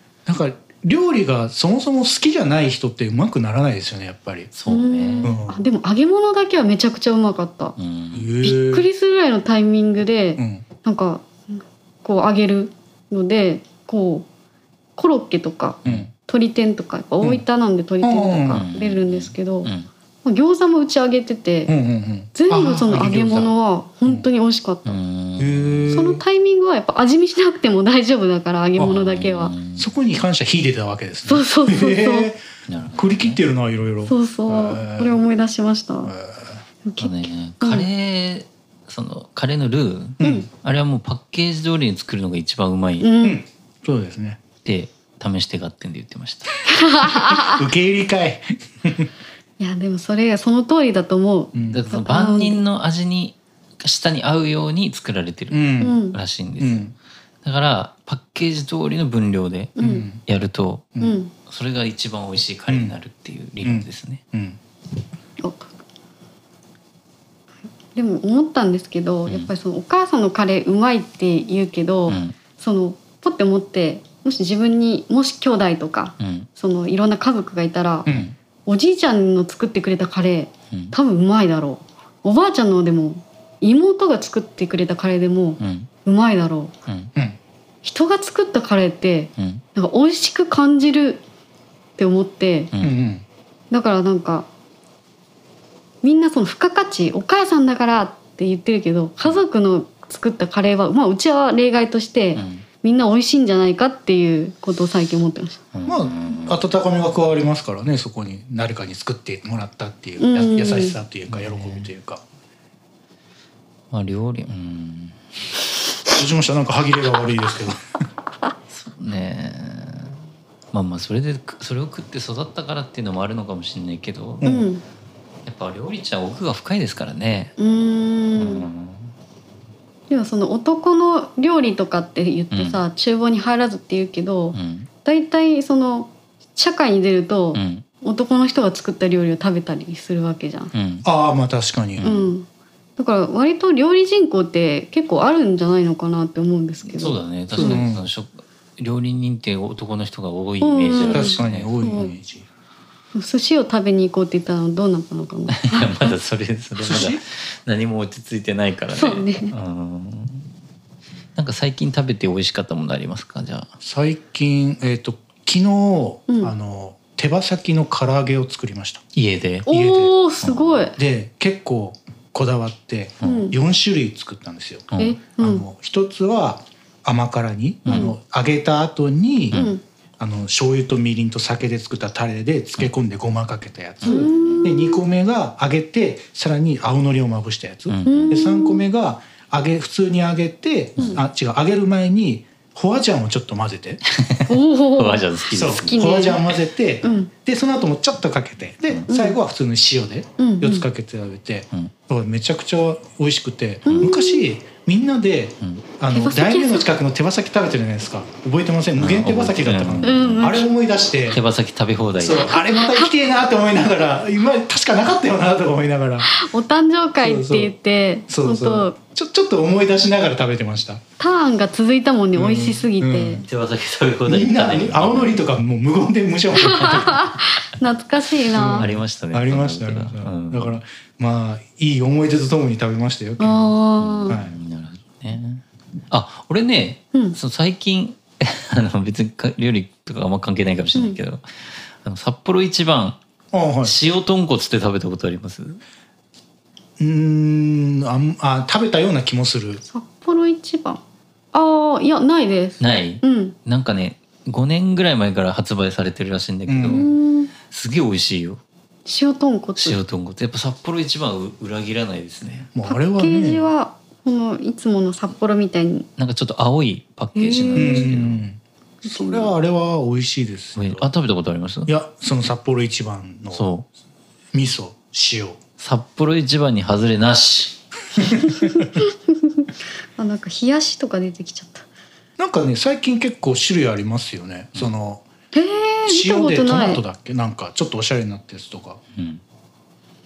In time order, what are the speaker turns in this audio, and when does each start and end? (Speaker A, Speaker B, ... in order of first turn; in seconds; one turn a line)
Speaker A: 0.3-4.5
Speaker B: 4.5-5.3
Speaker C: 4.7-7.8
Speaker A: 5.2-5.6
Speaker B: 7.8-8.3
Speaker A: 8.1-8.9
Speaker C: 8.4-14.3
Speaker A: 10.4-10.7
Speaker C: 15.0-19.7
Speaker A: 18.0-18.7
Speaker B: 18.5-19.9
Speaker C: 20.2-21.7
Speaker A: 21.7-23.5
Speaker C: 22.3-25.0
Speaker B: 24.9-25.9
Speaker A: 25.4-26.2
Speaker C: 25.9-29.5
Speaker B: 28.9-29.9
Speaker A: 29.8-32.4
Speaker C: 31.3-32.3
Speaker B: 32.7-33.4
Speaker A: 33.0-35.2
Speaker C: 34.1-36.1
Speaker A: 36.0-36.6
Speaker C: 36.9-37.9
Speaker B: 37.0-43.1
Speaker A: 40.2-40.5
Speaker C: 40.2-40.5
Speaker C: 43.0-43.4
Speaker A: 43.2-44.4
Speaker B: 44.6-46.7
Speaker C: 46.7-47.6
Speaker A: 47.1-49.1
Speaker C: 49.6-52.6
Speaker A: 51.5-51.8
Speaker B: 51.7-56.9
Speaker A: 55.5-56.0
Speaker C: 55.8-56.2
Speaker A: 56.6-56.9
Speaker B: 57.4-64.2
Speaker C: 59.8-60.1
Speaker A: 59.8-60.2
Speaker C: 61.0-61.3
Speaker A: 62.7-63.0
Speaker A: 63.6-64.6
Speaker C: 65.4-65.7
Speaker C: 68.0-78.1
Speaker B: 72.1-72.3
Speaker B: 76.2-76.5
Speaker A: 78.1-78.3
Speaker B: 78.1-78.3
Speaker C: 78.7-86.7
Speaker B: 85.6-85.9
Speaker C: 87.8-91.2
Speaker B: 89.4-89.6
Speaker C: 92.0-92.7
Speaker B: 92.7-93.0
Speaker A: 92.8-93.2
Speaker C: 93.7-94.5
Speaker C: 96.0-105.6
Speaker B: 102.3-102.7
Speaker B: 105.7-106.6
Speaker A: 105.9-112.2
Speaker C: 110.2-111.0
Speaker B: 111.3-111.9
Speaker B: 113.9-115.2
Speaker A: 116.1-117.8
Speaker B: 118.7-120.2
Speaker B: 120.7-124.5
Speaker A: 124.4-124.7
Speaker C: 124.4-124.8
Speaker B: 125.5-127.5
Speaker C: 127.6-128.7
Speaker B: 128.4-129.1
Speaker C: 130.1-140.7
Speaker B: 132.5-132.8
Speaker B: 134.5-134.9
Speaker B: 137.5-137.8
Speaker B: 140.7-141.1
Speaker A: 141.0-142.1
Speaker B: 142.0-142.3
Speaker C: 142.0-147.8
Speaker B: 146.9-151.8
Speaker A: 147.5-148.1
Speaker C: 150.6-152.1
Speaker A: 151.1-152.5
Speaker C: 153.2-156.1
Speaker B: 155.5-160.5
Speaker A: 156.8-157.2
Speaker C: 158.9-159.5
Speaker B: 161.4-163.7
Speaker A: 163.8-169.0
Speaker C: 166.3-166.5
Speaker B: 169.1-169.7
Speaker C: 169.7-171.0
Speaker A: 169.7-170.1
Speaker B: 170.4-170.8
Speaker A: 171.0-179.6
Speaker B: 173.2-173.5
Speaker C: 173.2-173.6
Speaker B: 174.9-175.2
Speaker C: 175.0-175.7
Speaker B: 177.8-178.1
Speaker C: 177.9-178.2
Speaker C: 179.5-179.8
Speaker A: 180.2-194.0
Speaker B: 184.0-184.7
Speaker C: 184.0-185.0
Speaker B: 187.9-188.4
Speaker C: 188.1-188.8
Speaker B: 194.1-196.4
Speaker C: 194.5-196.4
Speaker A: 195.5-211.4
Speaker C: 197.0-197.3
Speaker C: 199.1-199.4
Speaker C: 200.4-200.9
Speaker C: 203.8-204.5
Speaker C: 206.1-206.9
Speaker B: 209.0-210.6
Speaker C: 210.0-210.7
Speaker B: 211.3-212.6
Speaker A: 212.2-216.3
Speaker C: 212.5-213.1
Speaker C: 216.2-219.0
Speaker A: 217.2-217.7
Speaker A: 218.3-221.0
Speaker C: 221.2-223.4
Speaker A: 222.3-223.4
Speaker B: 223.4-225.4
Speaker A: 224.3-227.3
Speaker C: 226.6-228.9
Speaker A: 228.5-233.7
Speaker B: 228.6-230.8
Speaker C: 233.4-234.4
Speaker B: 234.0-243.2
Speaker A: 234.3-234.6
Speaker A: 243.5-243.9
Speaker B: 243.8-245.8
Speaker A: 247.0-249.8
Speaker C: 249.8-251.0
Speaker C: 251.5-253.6
Speaker B: 252.8-257.1
Speaker A: 256.7-257.1
Speaker C: 256.9-257.5
Speaker B: 257.6-258.6
Speaker C: 259.1-260.0
Speaker B: 259.8-262.7
Speaker A: 262.7-263.6
Speaker C: 262.9-266.1
Speaker B: 266.2-268.4
Speaker C: 267.4-268.1
Speaker A: 267.7-271.1
Speaker C: 269.0-269.5
Speaker B: 270.8-271.9
Speaker A: 271.9-273.7
Speaker B: 273.5-273.9
Speaker A: 274.5-275.6
Speaker B: 275.8-277.8
Speaker A: 278.2-278.9
Speaker C: 278.4-281.9
Speaker A: 282.4-285.2
Speaker C: 285.5-287.0
Speaker A: 286.1-289.0
Speaker B: 289.1-289.4